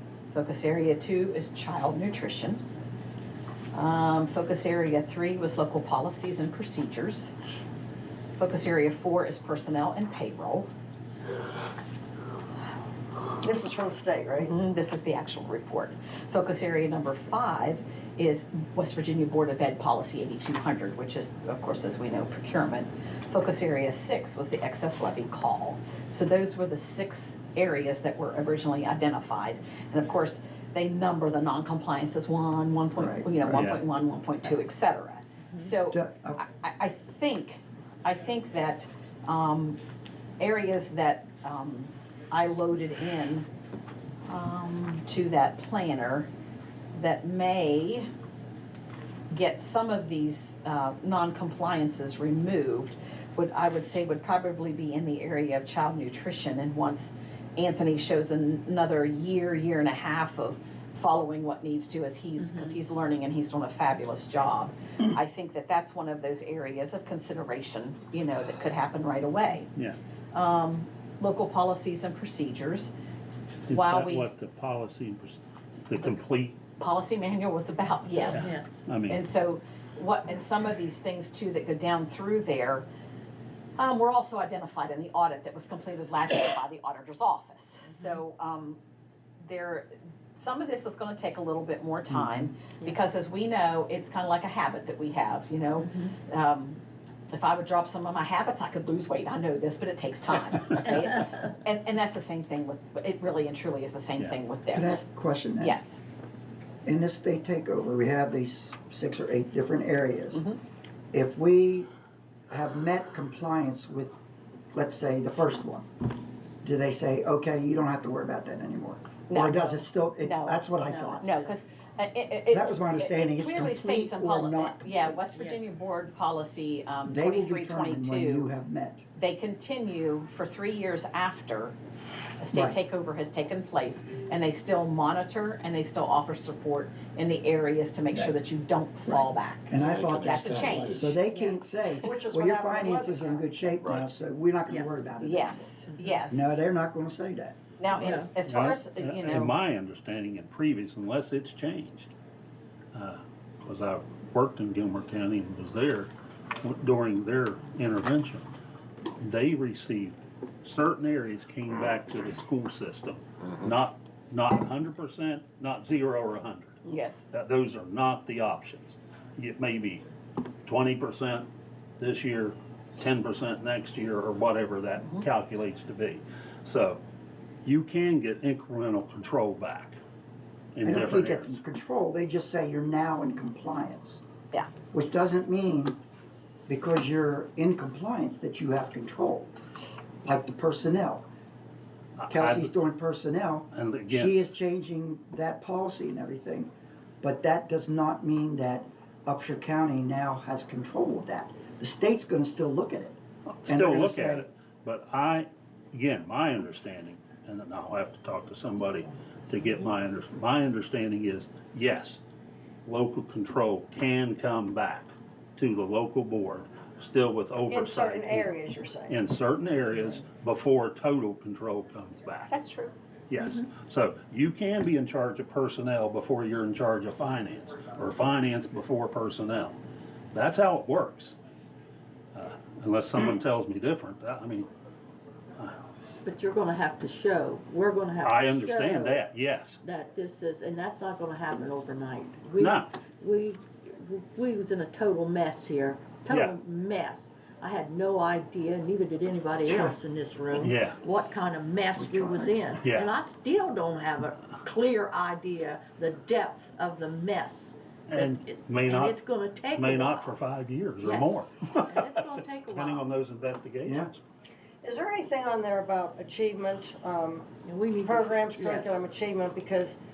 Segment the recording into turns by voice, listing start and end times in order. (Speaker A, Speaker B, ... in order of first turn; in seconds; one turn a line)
Speaker A: 0.3-2.6
Speaker A: 3.7-7.3
Speaker A: 8.4-10.7
Speaker B: 13.4-14.6
Speaker A: 14.4-39.8
Speaker C: 33.0-33.8
Speaker D: 33.5-33.8
Speaker C: 35.9-36.4
Speaker A: 40.4-43.5
Speaker A: 44.3-46.3
Speaker A: 46.9-48.1
Speaker A: 49.3-69.7
Speaker E: 62.4-62.8
Speaker A: 70.3-72.9
Speaker D: 73.7-76.6
Speaker A: 73.7-74.3
Speaker A: 76.8-78.5
Speaker E: 78.2-78.8
Speaker D: 78.3-79.2
Speaker A: 79.1-82.9
Speaker A: 83.8-88.8
Speaker A: 89.4-105.0
Speaker C: 104.7-105.8
Speaker A: 105.6-106.0
Speaker C: 106.8-110.5
Speaker C: 111.1-111.9
Speaker C: 112.5-114.2
Speaker C: 114.7-115.9
Speaker C: 116.6-121.3
Speaker A: 119.3-120.6
Speaker E: 120.8-121.5
Speaker A: 121.2-128.5
Speaker C: 122.5-125.2
Speaker E: 125.3-125.7
Speaker C: 127.1-129.1
Speaker A: 129.2-131.8
Speaker A: 132.4-141.2
Speaker C: 132.5-132.8
Speaker C: 139.1-145.8
Speaker B: 139.9-140.8
Speaker B: 141.3-143.5
Speaker D: 143.8-144.1
Speaker E: 144.7-145.1
Speaker A: 145.2-146.5
Speaker C: 146.3-147.6
Speaker A: 147.8-149.6
Speaker E: 147.9-148.3
Speaker D: 148.4-152.1
Speaker D: 152.9-158.5
Speaker D: 159.2-170.1
Speaker A: 166.8-167.2
Speaker D: 170.7-171.5
Speaker D: 172.0-177.0
Speaker D: 177.6-180.0
Speaker D: 180.8-181.6
Speaker C: 180.8-184.2
Speaker C: 184.9-186.0
Speaker C: 186.7-189.5
Speaker C: 190.2-191.3
Speaker D: 192.2-192.7
Speaker C: 192.3-204.5
Speaker D: 193.7-194.4
Speaker D: 203.5-212.2
Speaker D: 212.8-218.6
Speaker B: 217.7-219.2
Speaker D: 219.1-222.5
Speaker A: 222.5-222.9
Speaker D: 223.3-229.8
Speaker D: 230.3-231.4
Speaker D: 232.3-234.7
Speaker E: 236.2-239.2
Speaker D: 238.2-239.8
Speaker E: 239.8-260.4
Speaker D: 242.6-242.9
Speaker D: 246.3-246.6
Speaker C: 249.7-250.0
Speaker D: 250.6-251.0
Speaker C: 252.0-252.6
Speaker D: 252.8-253.1
Speaker D: 258.1-259.2
Speaker D: 259.8-264.2
Speaker E: 261.0-263.1
Speaker C: 263.8-264.1
Speaker B: 264.8-267.5
Speaker E: 267.6-269.0
Speaker B: 268.0-270.0